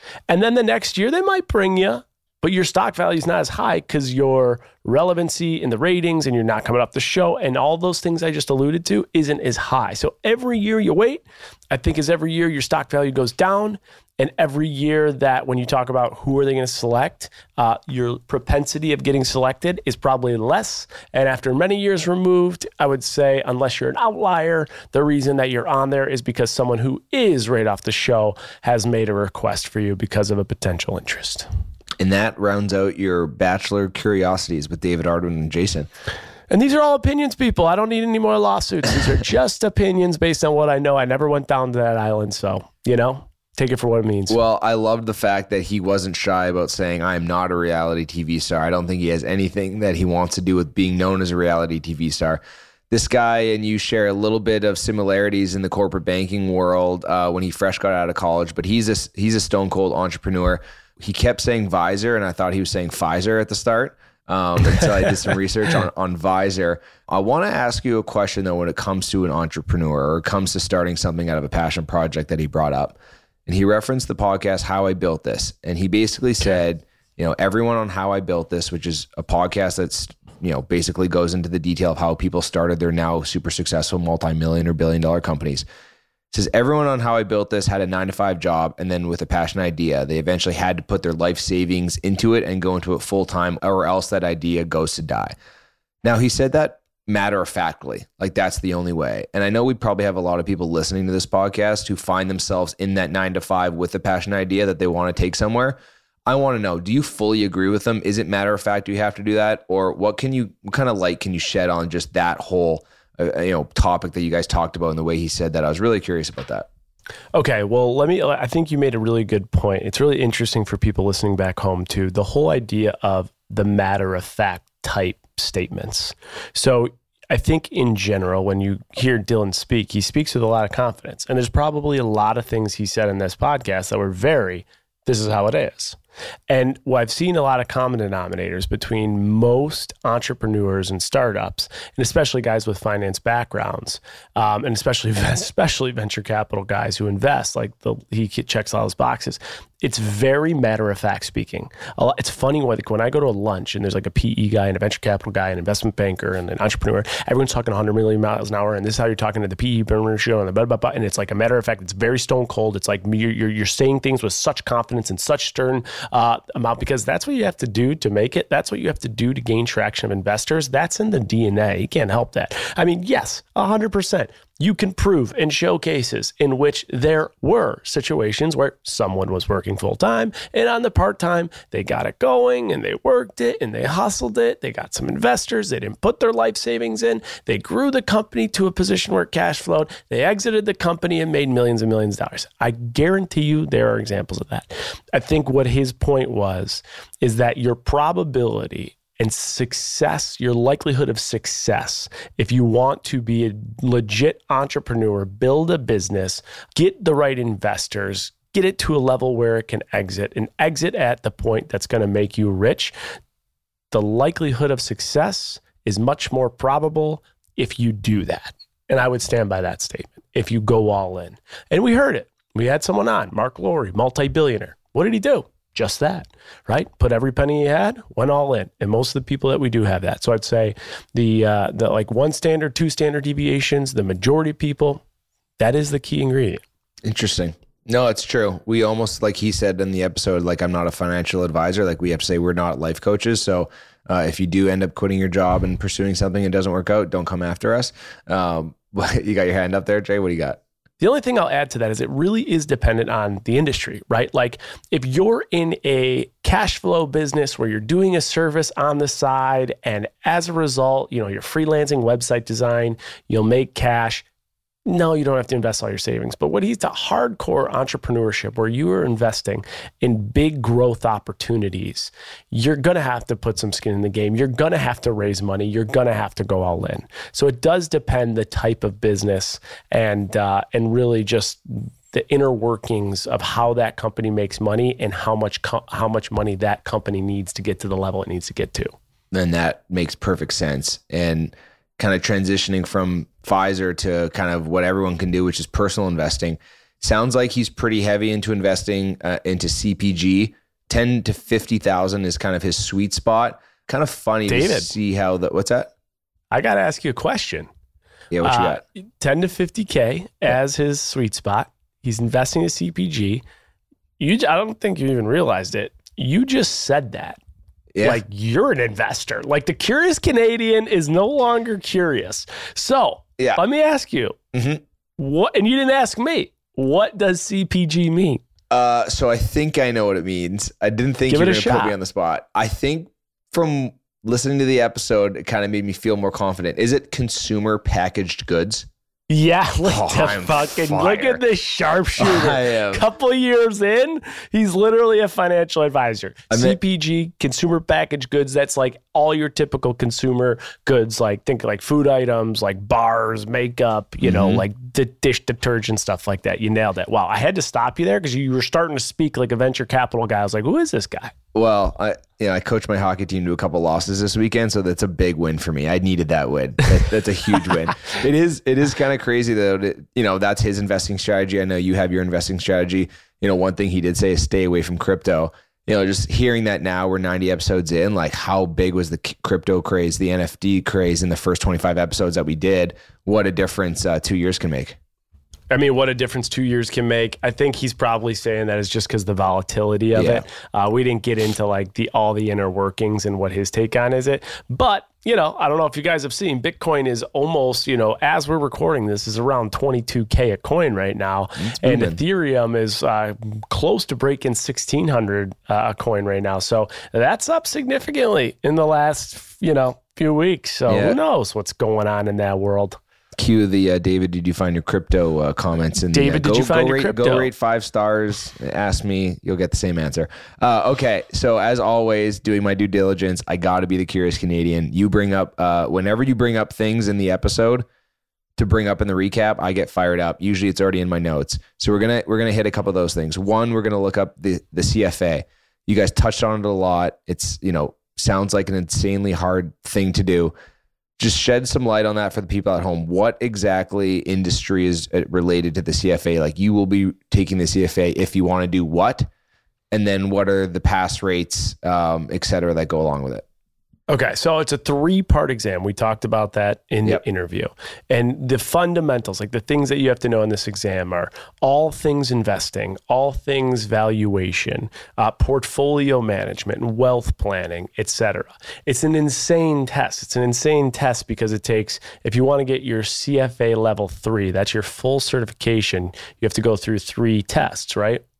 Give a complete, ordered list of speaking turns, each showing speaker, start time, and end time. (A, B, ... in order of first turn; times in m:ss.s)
0:00.3-0:31.5 A
0:32.0-0:35.9 B
0:36.5-0:44.4 A
0:44.3-1:25.6 B
1:26.3-1:35.3 B
1:36.0-1:56.6 B
1:57.3-2:16.0 A
2:16.5-3:32.9 A
3:33.9-3:55.0 A
3:55.6-3:56.6 A
3:57.0-4:10.6 B
4:11.0-4:24.2 A
4:24.8-4:48.9 A
4:49.3-5:05.9 B
5:04.5-5:04.9 A
5:06.5-5:07.7 A
5:08.3-5:08.8 B
5:08.4-5:13.4 A
5:14.2-5:17.4 A
5:17.9-5:18.2 B
5:18.0-5:24.4 A
5:24.5-5:24.8 B
5:25.2-5:28.4 A
5:28.7-5:38.9 B
5:31.3-5:31.9 A
5:39.3-6:01.3 A
5:39.9-5:41.4 B
5:42.2-5:43.0 B
5:46.5-5:46.8 B
5:54.2-5:54.6 B
6:01.5-6:25.0 B
6:25.7-6:53.0 A
6:30.1-6:30.4 B
6:41.6-6:42.2 B
6:50.9-6:51.2 B
6:53.4-7:07.8 B
6:56.1-6:57.5 A
7:08.6-7:20.5 B
7:21.2-7:29.3 B
7:29.9-7:33.4 B
7:34.1-7:58.2 A